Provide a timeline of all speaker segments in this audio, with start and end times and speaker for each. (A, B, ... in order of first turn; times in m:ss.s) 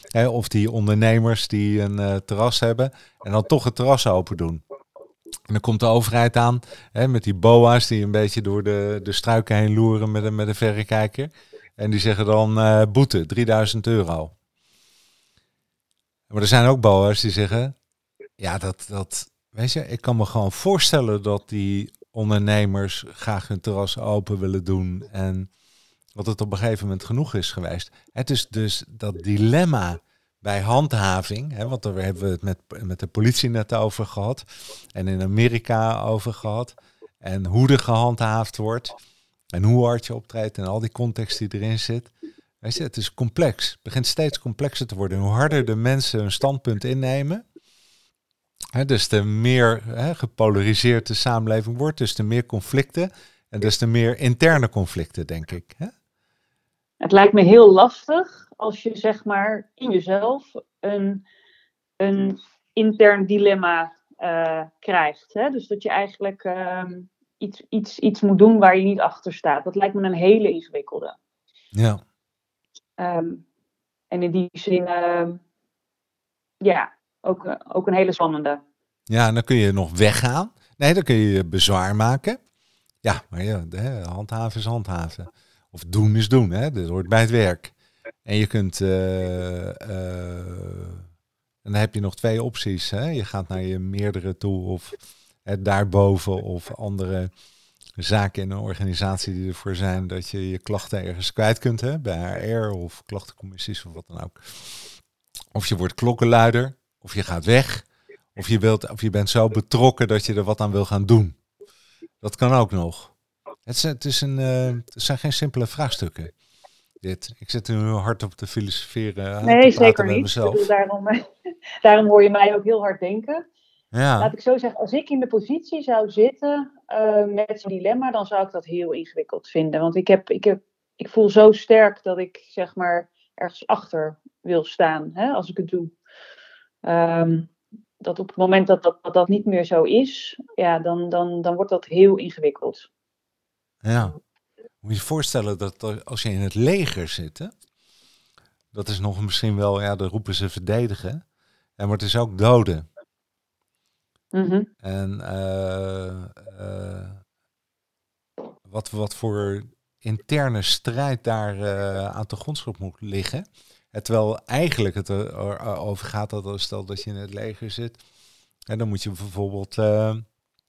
0:00.1-0:04.6 A
0:05.5-0:14.3 A
0:16.3-0:17.7 A
0:18.4-0:25.5 A
0:26.1-0:34.4 A
0:34.9-0:38.9 A
0:39.5-0:47.4 A
0:48.7-0:55.9 A
0:57.0-1:01.2 B
1:02.0-1:11.2 B
1:11.7-1:12.0 A
1:13.0-1:13.4 B
1:14.1-1:15.4 B
1:16.6-1:18.6 B
1:19.1-1:22.4 A
1:23.0-1:27.7 A
1:28.2-1:31.0 A
1:31.6-1:37.3 A
1:38.0-1:44.4 A
1:45.5-1:51.4 A
1:52.2-1:53.1 A
1:53.6-1:56.3 A
1:57.0-2:00.6 A
1:59.4-2:01.2 B
2:01.8-2:03.4 B
2:03.9-2:04.3 A
2:04.2-2:15.9 B
2:16.8-2:22.9 B
2:23.8-2:24.2 A
2:24.8-2:27.5 A
2:28.7-2:31.2 A
2:31.8-2:32.8 A
2:34.3-2:34.7 B
2:34.8-2:37.2 A
2:38.7-2:48.0 A
2:48.7-2:50.2 A